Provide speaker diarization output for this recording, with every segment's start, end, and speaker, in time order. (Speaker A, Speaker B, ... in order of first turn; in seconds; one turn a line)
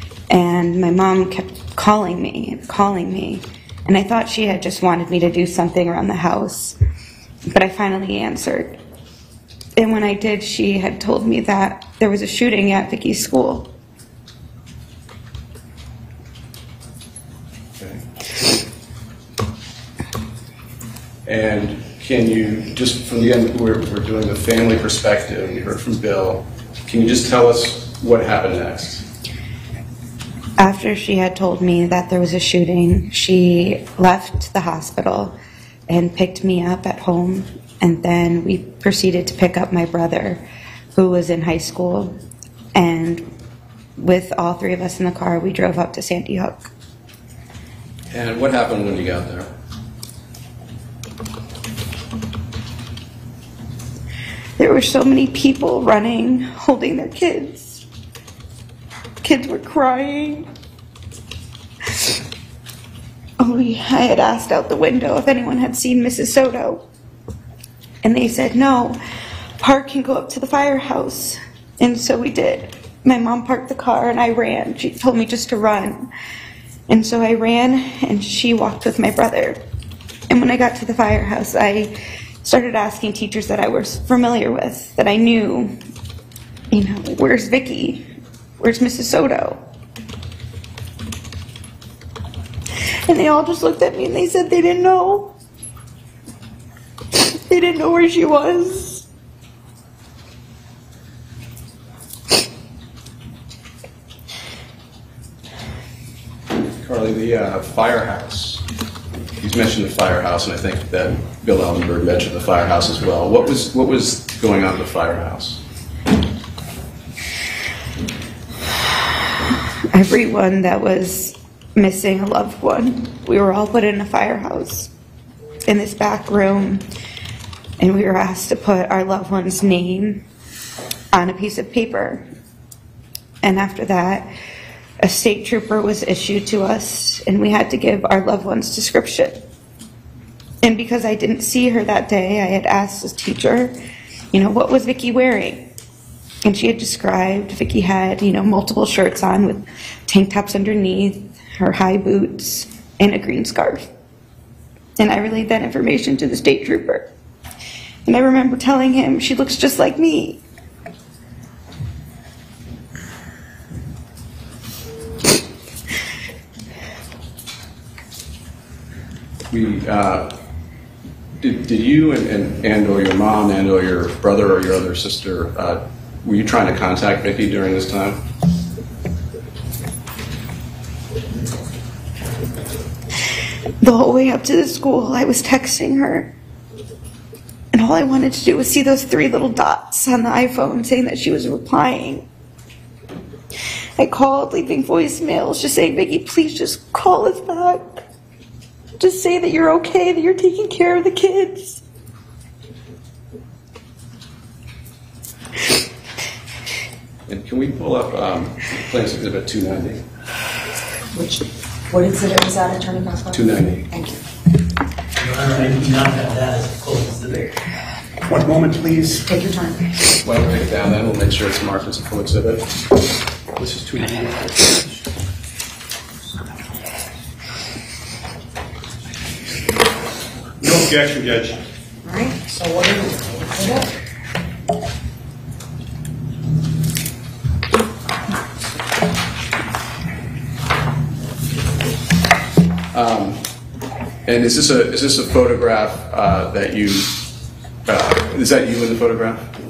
Speaker A: 0.3-6.8
Speaker A: 7.5-8.8
Speaker A: 9.8-13.7
Speaker B: 17.8-18.1
Speaker B: 21.3-29.1
Speaker A: 30.6-35.4
Speaker A: 35.9-42.1
Speaker A: 42.8-43.3
Speaker A: 44.0-46.7
Speaker B: 48.1-49.5
Speaker A: 54.6-57.9
Speaker A: 59.2-60.5
Speaker A: 63.4-66.8
Speaker A: 68.0-69.0
Speaker A: 69.6-76.1
Speaker A: 76.9-79.6
Speaker A: 80.3-85.7
Speaker A: 86.7-88.1
Speaker A: 88.6-89.6
Speaker A: 93.1-95.4
Speaker A: 97.1-99.1
Speaker B: 106.8-108.7
Speaker B: 109.4-115.6
Speaker A: 119.9-124.9
Speaker A: 125.7-126.9
Speaker A: 127.8-130.3
Speaker A: 131.1-132.2
Speaker A: 133.4-134.3
Speaker A: 135.0-139.5
Speaker A: 140.6-143.7
Speaker A: 144.3-145.7
Speaker A: 146.4-153.9
Speaker A: 155.0-157.1
Speaker A: 158.1-160.4
Speaker B: 169.5-170.3
Speaker B: 171.4-178.2
Speaker A: 183.8-186.3
Speaker A: 187.7-192.3
Speaker A: 194.0-198.0
Speaker A: 199.0-201.8
Speaker B: 207.3-210.0
Speaker C: 211.2-213.4
Speaker B: 213.3-213.9
Speaker C: 213.9-214.2
Speaker D: 215.2-217.6
Speaker E: 218.3-219.3
Speaker C: 219.3-219.9
Speaker B: 220.2-222.7
Speaker E: 223.6-224.8
Speaker E: 230.6-231.6
Speaker C: 232.1-233.9
Speaker B: 242.9-243.4
Speaker B: 244.3-247.2
Speaker B: 247.9-249.4